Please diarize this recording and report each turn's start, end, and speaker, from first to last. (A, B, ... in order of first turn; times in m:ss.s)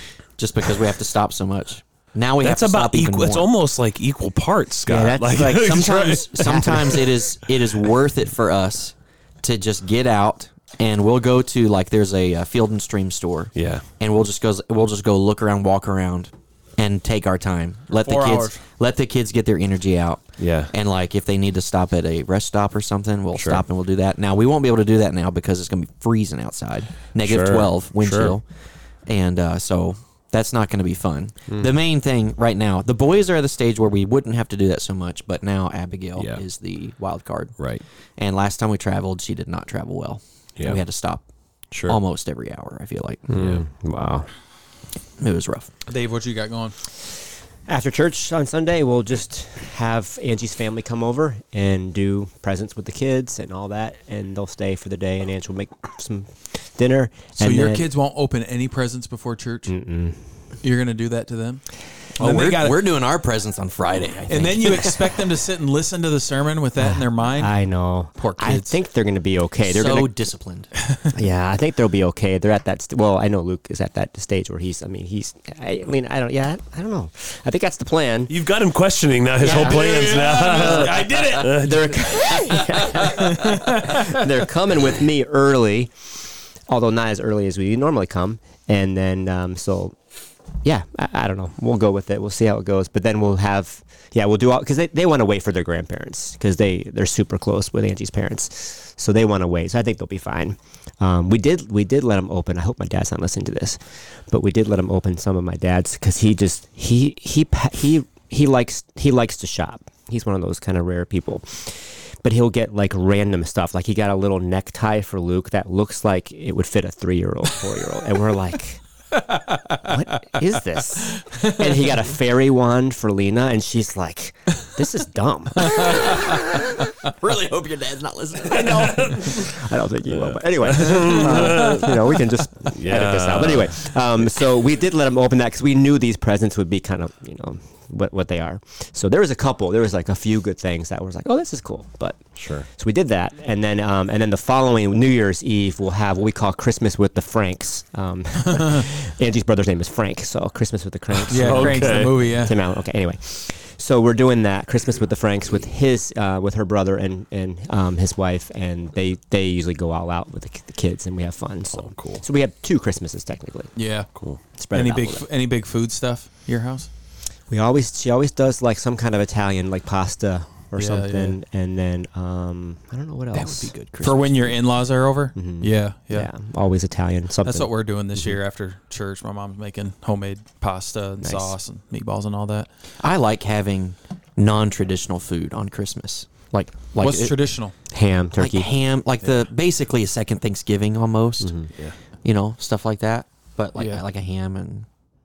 0:00.4-0:03.5 A
0:02.4-0:07.0 B
0:04.9-0:37.6 A
0:04.9-0:05.2 C
0:06.4-0:06.9 C
0:13.6-0:13.8 B
0:18.0-0:18.6 D
0:20.4-0:20.7 B
0:23.3-0:23.6 B
0:27.2-0:28.4 B
0:36.2-0:36.4 B
0:37.6-0:37.8 B
0:38.2-0:41.2 A
0:41.7-0:42.0 B
0:41.8-0:43.3 A
0:43.3-0:44.3 C
0:43.3-0:43.6 B
0:45.2-0:45.7 A
0:45.9-0:46.8 D
0:47.7-0:57.9 C
0:57.4-0:59.8 D
0:59.7-1:00.3 C
1:00.6-1:02.9 D
1:02.2-1:05.1 A
1:04.3-1:07.5 D
1:06.8-1:10.1 C
1:08.2-1:08.7 A
1:08.2-1:08.5 D
1:09.6-1:10.7 A
1:11.1-1:18.4 C
1:18.3-1:22.1 B
1:19.4-1:26.0 C
1:19.4-1:21.9 D
1:22.6-1:24.0 D
1:26.7-1:30.0 C
1:30.6-1:58.8 C
1:59.2-2:00.0 D
1:59.8-2:06.2 C
2:07.1-2:09.1 A
2:08.6-2:43.8 C
2:08.6-2:09.4 B
2:10.1-2:12.2 B
2:12.7-2:13.8 B
2:22.4-2:22.7 B
2:31.3-2:32.3 B
2:31.3-2:32.6 D
2:41.7-2:42.2 B
2:43.8-2:46.9 D
2:44.2-2:44.4 B
2:44.6-2:45.3 C
2:47.5-2:53.8 C
2:50.8-2:51.4 D
2:53.3-2:54.5 A
2:54.0-2:56.3 D
2:55.4-2:58.4 C
2:57.4-3:02.7 D
3:01.2-3:01.6 C
3:03.0-3:14.9 A
3:07.0-3:07.7 D
3:07.9-3:08.7 C
3:11.4-3:11.7 C
3:13.8-3:14.0 D